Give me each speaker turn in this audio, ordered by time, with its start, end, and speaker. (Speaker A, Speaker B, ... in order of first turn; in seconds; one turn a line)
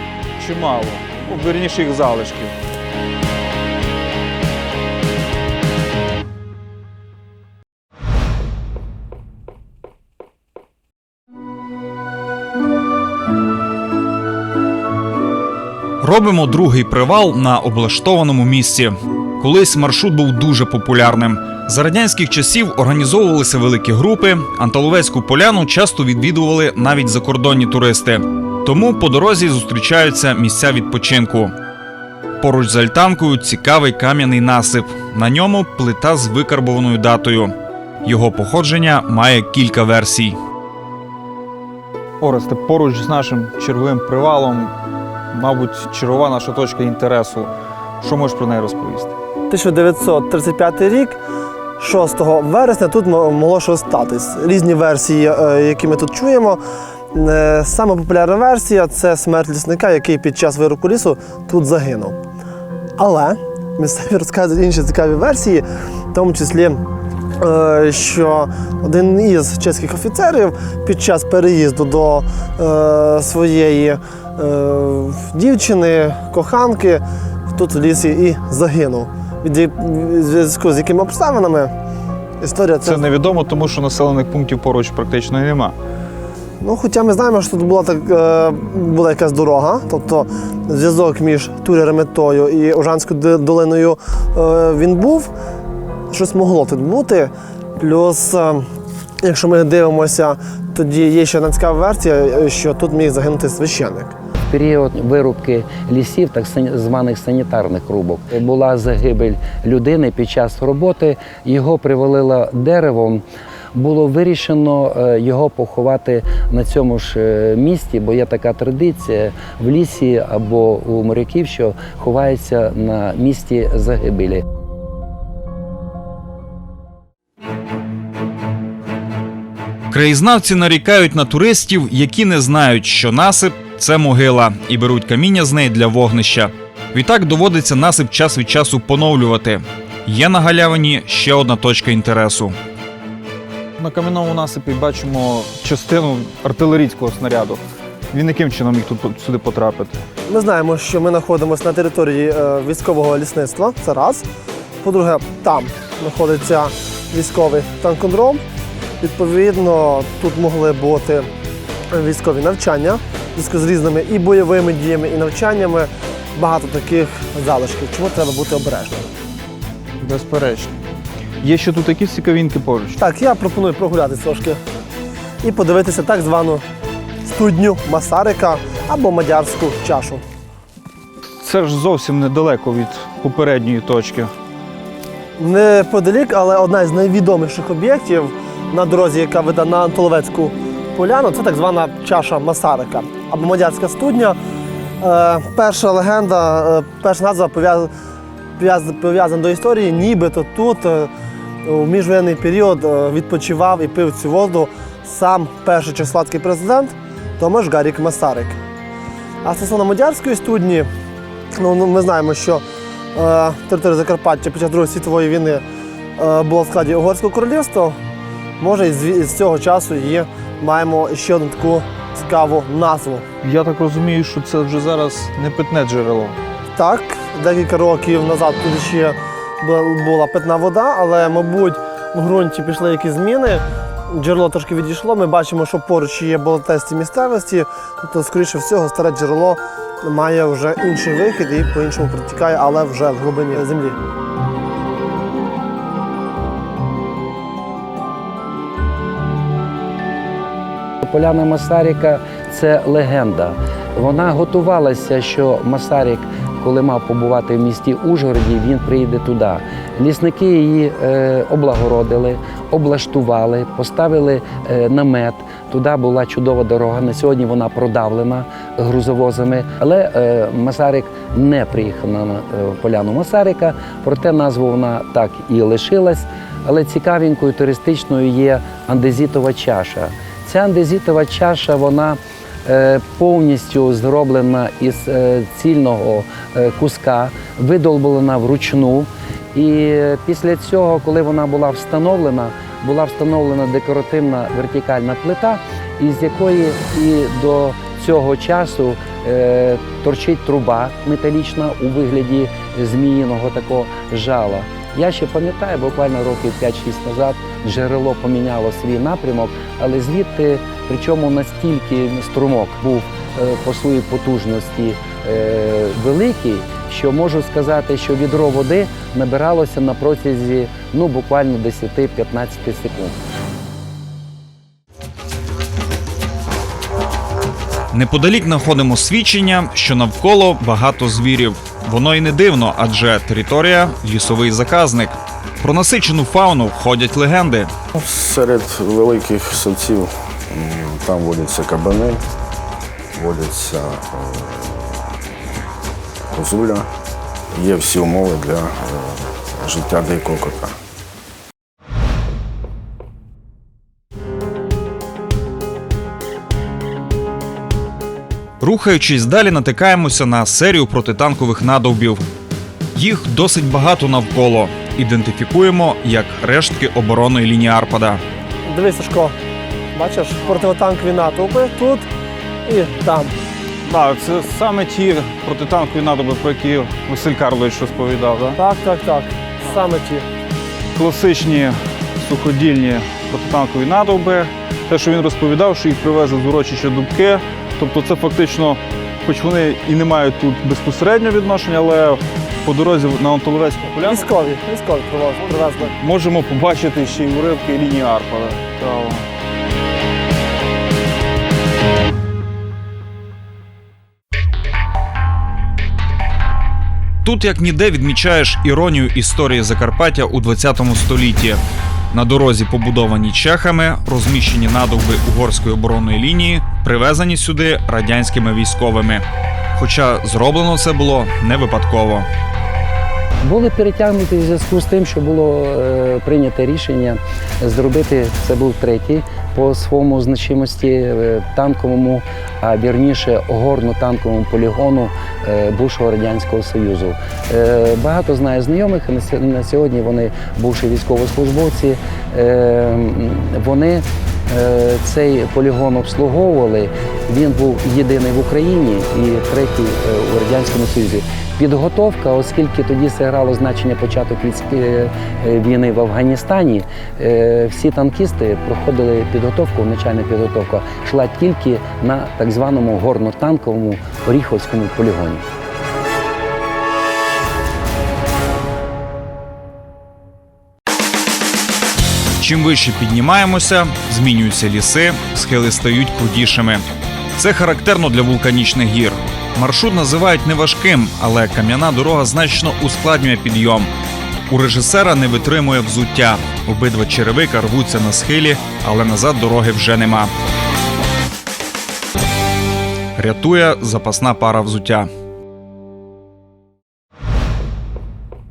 Speaker A: 0.3-2.5
Speaker B: 16.0-31.5
Speaker B: 32.4-40.4
Speaker A: 42.2-44.7
Speaker A: 45.3-49.1
Speaker C: 49.5-51.2
Speaker C: 51.8-56.6
Speaker C: 57.1-62.2
Speaker C: 63.0-66.8
Speaker C: 67.4-81.7
Speaker C: 82.4-83.1
Speaker A: 82.8-85.7
Speaker C: 86.6-95.3
Speaker C: 96.1-98.7
Speaker C: 99.2-104.1
Speaker D: 104.5-124.4
Speaker B: 129.9-142.6
Speaker A: 143.8-147.6
Speaker A: 148.1-150.0
Speaker C: 150.3-154.2
Speaker C: 154.8-158.4
Speaker C: 159.0-161.3
Speaker C: 161.9-169.1
Speaker A: 170.0-170.7
Speaker A: 171.4-173.0
Speaker C: 173.0-174.6
Speaker C: 175.4-176.6
Speaker C: 177.2-180.2
Speaker A: 181.4-184.3
Speaker C: 185.4-194.4
Speaker C: 195.0-197.9
Speaker C: 198.6-201.1
Speaker C: 201.6-208.6
Speaker C: 209.4-210.9
Speaker C: 211.5-212.6
Speaker C: 213.1-215.6
Speaker C: 216.2-218.0
Speaker C: 218.6-223.2
Speaker A: 223.4-226.4
Speaker C: 226.8-244.0
Speaker D: 251.0-323.2
Speaker B: 327.9-337.7
Speaker E: 337.9-342.2
Speaker E: 343.1-345.0
Speaker E: 346.3-346.9
Speaker E: 347.5-350.7
Speaker B: 358.6-362.2
Speaker B: 362.9-368.2
Speaker C: 368.7-369.3
Speaker C: 369.9-372.1
Speaker C: 372.6-373.3
Speaker A: 373.8-378.6
Speaker C: 378.6-380.2
Speaker A: 380.9-394.3
Speaker C: 394.0-395.9
Speaker A: 396.0-399.2
Speaker B: 407.2-411.6
Speaker B: 412.1-419.2
Speaker B: 419.8-422.3
Speaker D: 423.4-465.4
Speaker B: 472.4-476.8
Speaker B: 477.4-483.9
Speaker B: 484.5-490.3
Speaker B: 493.1-495.1